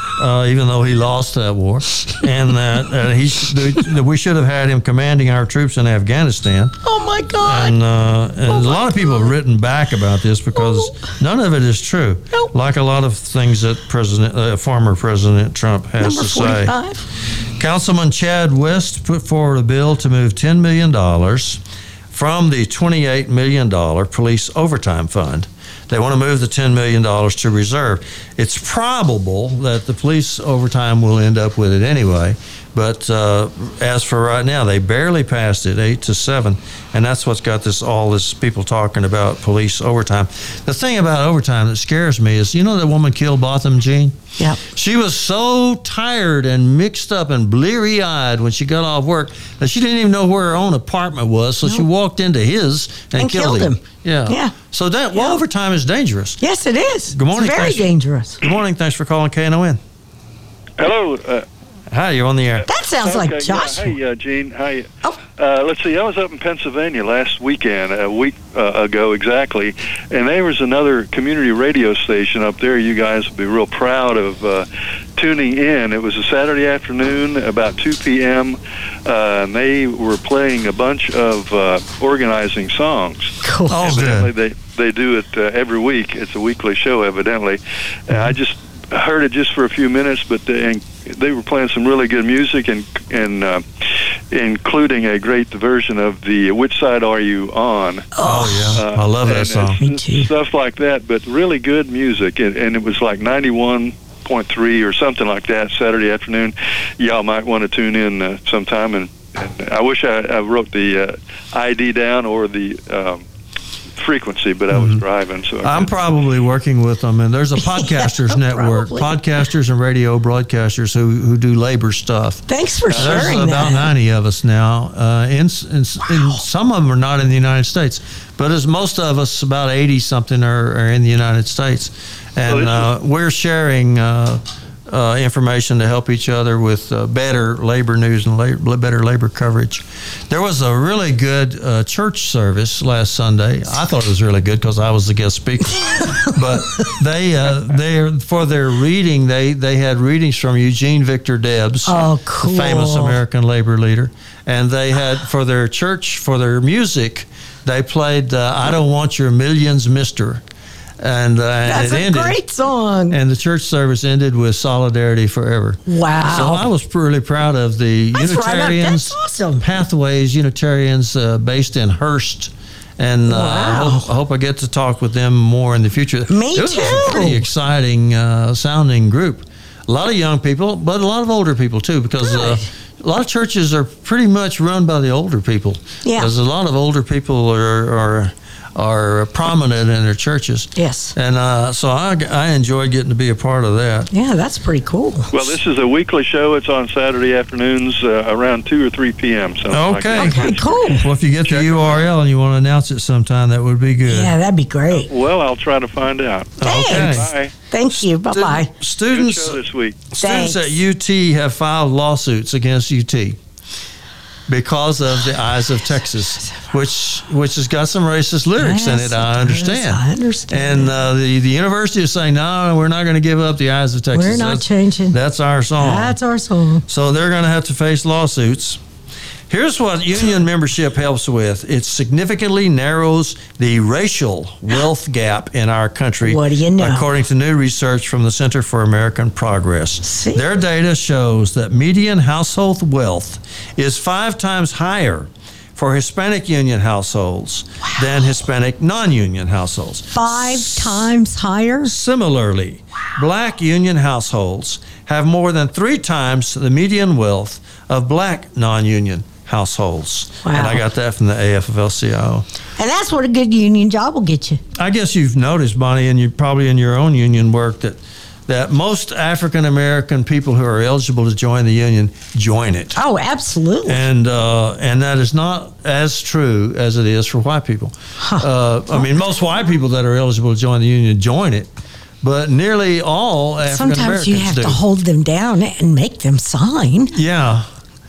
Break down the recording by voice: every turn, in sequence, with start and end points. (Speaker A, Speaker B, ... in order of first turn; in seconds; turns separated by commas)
Speaker A: 0.2-6.8, Speaker B: 6.8-7.8, Speaker A: 7.4-16.7, Speaker B: 8.5-9.3, Speaker B: 10.5-11.0, Speaker B: 16.0-17.0, Speaker A: 17.3-21.6, Speaker A: 22.1-56.4, Speaker B: 53.1-54.5, Speaker B: 56.4-58.4, Speaker A: 57.1-57.9, Speaker A: 58.4-59.8, Speaker C: 60.8-61.5, Speaker A: 61.9-62.7, Speaker B: 62.7-64.0, Speaker C: 63.0-93.6, Speaker B: 83.4-83.8, Speaker A: 83.7-84.3, Speaker C: 94.3-98.1, Speaker B: 98.2-98.8, Speaker A: 98.2-99.8, Speaker C: 98.7-113.2, Speaker B: 99.8-100.3, Speaker C: 114.0-115.9, Speaker A: 114.7-115.0, Speaker A: 115.6-160.4, Speaker B: 117.7-119.1, Speaker B: 122.5-123.9, Speaker C: 122.9-123.5, Speaker B: 126.1-126.4, Speaker C: 132.4-132.9, Speaker B: 146.0-146.9, Speaker B: 151.9-153.2, Speaker A: 161.0-162.4, Speaker B: 161.7-163.2, Speaker A: 163.1-194.1, Speaker B: 165.8-166.7, Speaker B: 168.1-169.6, Speaker B: 173.3-174.1, Speaker B: 176.3-177.4, Speaker B: 182.2-182.6, Speaker B: 186.0-186.3, Speaker B: 190.8-191.1, Speaker B: 194.1-195.5, Speaker C: 195.3-202.1, Speaker A: 199.7-204.3, Speaker B: 200.2-201.0, Speaker B: 204.1-205.1, Speaker C: 204.9-207.5, Speaker A: 206.6-207.3, Speaker B: 206.6-208.7, Speaker A: 207.9-209.6, Speaker C: 209.1-210.1, Speaker A: 210.1-213.4, Speaker B: 210.2-210.8, Speaker A: 214.5-226.2, Speaker B: 218.6-220.9, Speaker B: 224.1-225.2, Speaker B: 225.8-226.8, Speaker A: 226.9-228.8, Speaker A: 229.5-251.1, Speaker B: 236.2-237.1, Speaker B: 240.0-240.4, Speaker B: 250.1-251.9, Speaker A: 251.8-262.4, Speaker B: 260.4-260.8, Speaker B: 262.8-264.6, Speaker A: 264.8-273.0, Speaker B: 272.9-274.0, Speaker A: 273.9-281.7, Speaker B: 278.2-279.1, Speaker A: 282.2-284.8, Speaker B: 283.7-287.1, Speaker A: 287.1-287.6